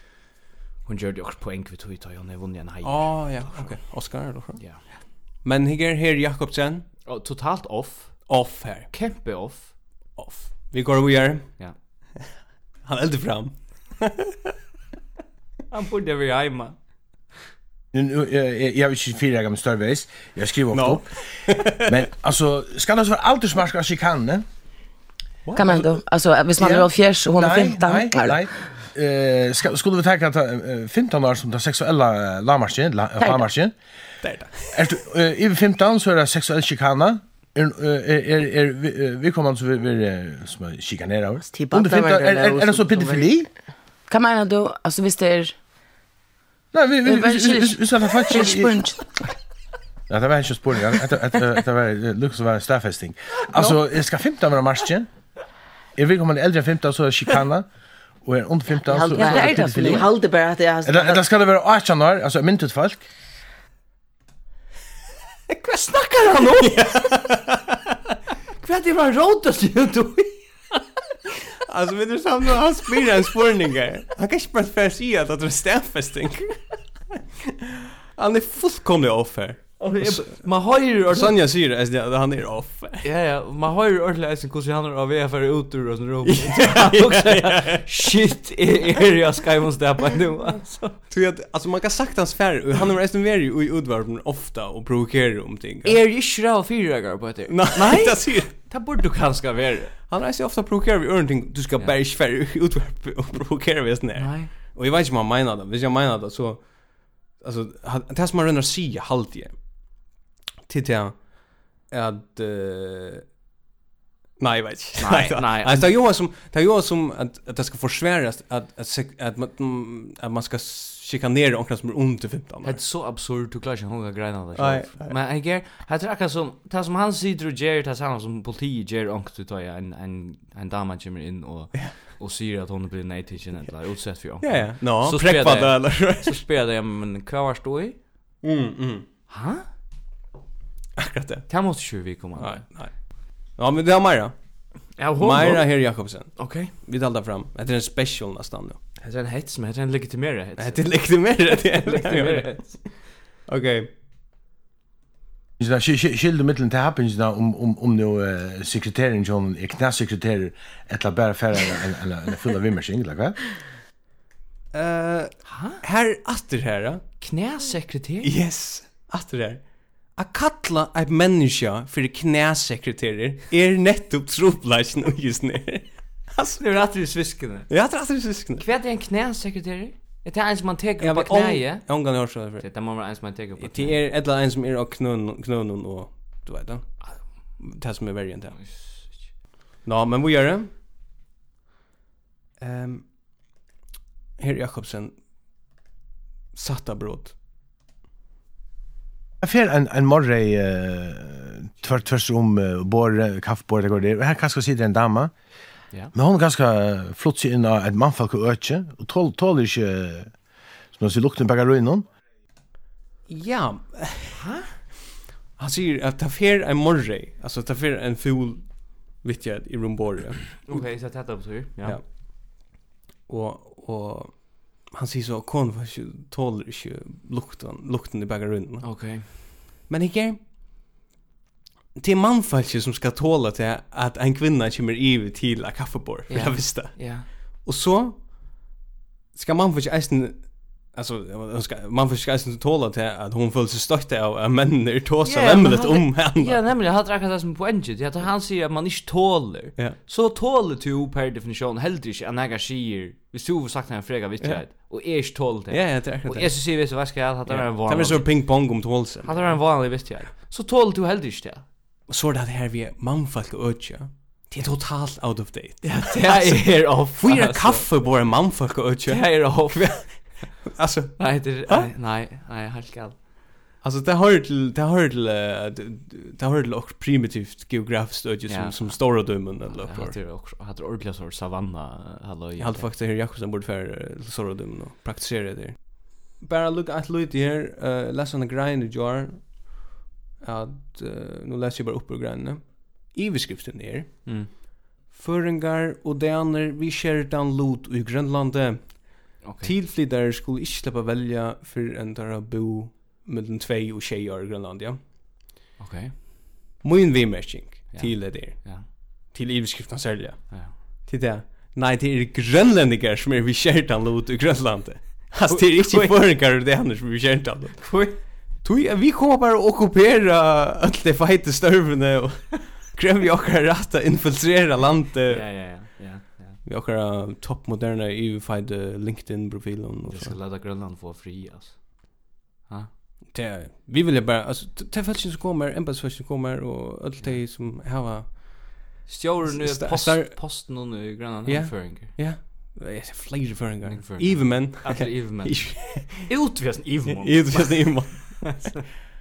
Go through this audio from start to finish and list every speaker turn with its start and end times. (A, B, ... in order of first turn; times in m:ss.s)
0:00.8-0:03.8 A
0:02.8-0:04.6 B
0:04.6-0:04.9 A
0:05.4-0:06.8 B
0:07.0-0:08.3 A
0:08.3-0:08.9 B
0:08.9-0:09.7 A
0:10.2-0:11.5 B
0:12.8-0:14.5 B
0:15.7-0:16.8 A
0:17.9-0:21.1 C
0:20.7-0:22.1 B
0:21.8-0:24.4 C
0:25.4-0:25.8 B
0:25.5-0:28.4 D
0:26.6-0:33.7 C
0:33.2-0:33.5 D
0:34.2-0:35.0 B
0:34.7-0:43.5 C
0:41.4-0:43.3 E
0:44.1-0:45.5 D
0:46.7-0:48.8 C
0:47.0-0:49.1 D
0:50.1-0:55.1 C
0:56.0-0:57.7 C
0:58.2-1:00.1 C
0:58.9-1:01.2 E
0:59.1-1:00.0 D
1:00.8-1:03.0 C
1:05.5-1:07.2 A
1:06.6-1:07.7 B
1:08.6-1:10.4 A
1:11.5-1:16.6 B
1:17.1-1:20.4 B
1:19.8-1:21.4 A
1:21.1-1:23.0 B
1:23.0-1:31.0 A
1:26.2-1:28.2 B
1:31.1-1:36.0 B
1:35.8-1:39.9 A
1:37.5-1:38.5 B
1:40.1-1:46.7 B
1:44.2-1:44.5 A
1:47.3-1:49.6 B
1:50.7-1:51.2 B
1:51.8-1:53.2 B
1:54.4-2:02.8 B
1:55.0-1:55.9 A
2:02.6-2:18.0 A
2:04.5-2:05.2 B
2:14.4-2:16.4 B
2:18.4-2:19.0 B
2:19.3-2:19.6 A
2:21.0-2:21.5 B
2:21.5-2:22.6 A
2:22.4-2:22.9 B
2:23.6-2:24.3 B
2:25.0-2:25.7 A
2:25.2-2:28.8 B
2:26.4-2:26.7 A
2:29.0-2:32.8 A
2:30.6-2:32.9 B
2:33.5-2:33.9 B
2:35.6-2:43.4 C
2:44.7-2:47.0 B
2:45.4-2:45.8 A
2:47.2-2:48.3 A
2:48.2-2:49.6 B
2:50.2-2:56.6 B
2:56.6-2:57.7 A
2:57.7-2:58.6 B
2:58.6-3:04.0 A
3:01.0-3:02.7 B
3:03.6-3:06.9 B
3:07.6-3:08.6 B
3:08.5-3:09.3 A
3:09.8-3:10.7 B
3:12.6-3:13.1 B
3:14.4-3:15.1 B
3:16.5-3:17.3 B
3:19.4-3:25.3 C
3:26.1-3:30.3 C
3:30.9-3:32.0 C
3:33.3-3:34.4 B
3:34.3-3:34.7 A
3:35.6-3:40.8 B
3:40.6-3:42.0 A
3:43.3-3:48.9 B
3:48.8-3:49.3 A
3:49.9-3:50.4 B
3:52.0-3:58.2 B
3:56.3-3:57.3 A
3:59.3-4:06.6 B
4:05.2-4:18.6 A
4:15.7-4:16.6 B
4:17.5-4:19.6 B
4:19.2-4:21.6 A
4:22.1-4:31.9 B
4:25.8-4:27.9 A
4:29.0-4:30.5 A
4:31.2-4:33.2 A
4:33.8-4:40.2 B
4:38.5-4:42.9 A
4:42.6-4:49.7 B
4:50.4-4:54.3 B
4:55.1-5:05.0 B
4:59.4-4:59.7 A
5:05.8-5:06.1 A
5:06.8-5:18.0 B
5:07.9-5:08.8 A
5:15.4-5:16.2 A
5:17.8-5:18.2 A
5:18.6-5:25.7 B
5:25.3-5:26.6 A
5:26.6-5:30.4 B
5:30.0-5:32.9 A
5:33.3-5:38.7 B
5:39.0-5:42.1 A
5:39.4-5:40.6 B
5:41.4-5:46.3 B
5:43.8-5:48.8 A
5:47.0-5:48.8 B